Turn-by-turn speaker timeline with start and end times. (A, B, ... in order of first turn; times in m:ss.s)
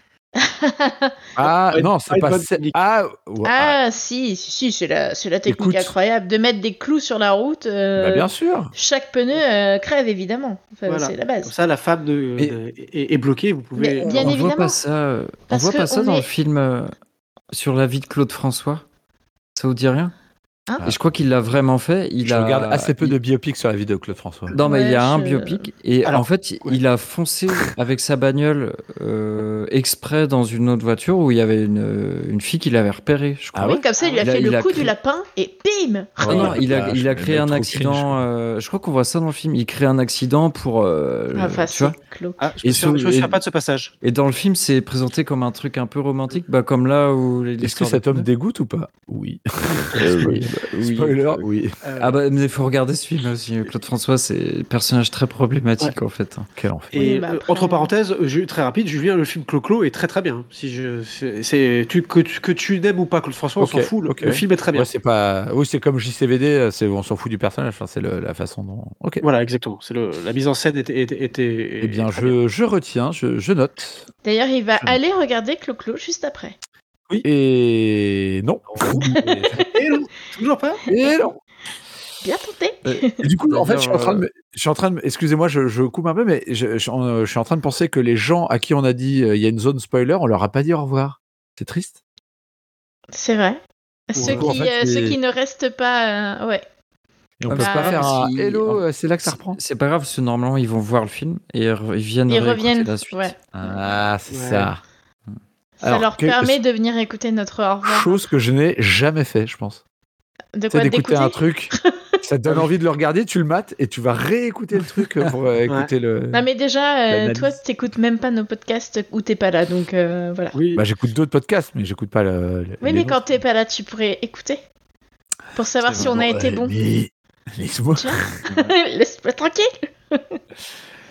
0:00.4-0:01.1 A
0:01.4-0:03.8 B
0:01.7-0:02.8 C
0:03.4-0:11.5 A
0:05.4-0:05.9 B
0:08.0-0:08.7 B
0:10.9-0:14.2 C
0:13.8-0:14.8 A
0:14.0-0:16.9 D
0:15.5-0:16.3 A
0:17.5-0:18.8 D
0:19.6-0:20.1 D
0:20.8-0:23.1 D
0:22.2-0:24.6 B
0:24.5-0:34.9 D
0:24.6-0:25.7 A
0:26.0-0:26.8 C
0:33.5-0:34.6 B
0:33.6-0:36.5 A
0:36.2-0:38.2 B
0:36.2-0:41.9 D
0:41.3-0:42.4 A
0:42.4-0:43.9 C
0:42.6-0:43.4 D
0:44.0-0:48.2 D
0:47.6-0:51.8 B
0:50.0-0:51.4 D
0:51.8-0:52.2 C
0:52.0-0:56.5 D
0:56.6-0:57.0 B
0:56.9-1:04.9 C
0:57.0-0:57.9 A
1:03.6-1:09.2 B
1:09.2-1:12.3 C
1:11.8-1:14.1 B
1:14.2-1:16.6 A
1:17.2-1:19.6 B
1:18.8-1:19.0 C
1:19.5-1:20.8 C
1:20.9-1:21.4 B
1:22.2-1:23.2 A
1:22.8-1:24.2 D
1:23.2-1:32.0 B
1:33.1-1:36.6 A
1:34.2-1:34.5 C
1:34.2-1:35.2 B
1:37.4-1:39.6 B
1:37.5-1:43.3 D
1:37.6-1:38.1 A
1:42.3-1:43.3 A
1:43.5-1:44.8 B
1:44.3-1:44.7 C
1:45.8-1:48.2 A
1:45.8-1:46.5 B
1:47.8-1:49.8 B
1:50.6-1:51.9 A
1:50.7-1:56.4 B
1:56.3-2:00.5 A
1:57.1-1:57.6 B
2:00.5-2:00.8 C
2:00.7-2:03.2 B
2:02.8-2:04.6 A
2:05.5-2:06.7 A
2:05.8-2:06.1 D
2:06.0-2:08.5 B
2:08.0-2:10.4 A
2:08.5-2:08.7 D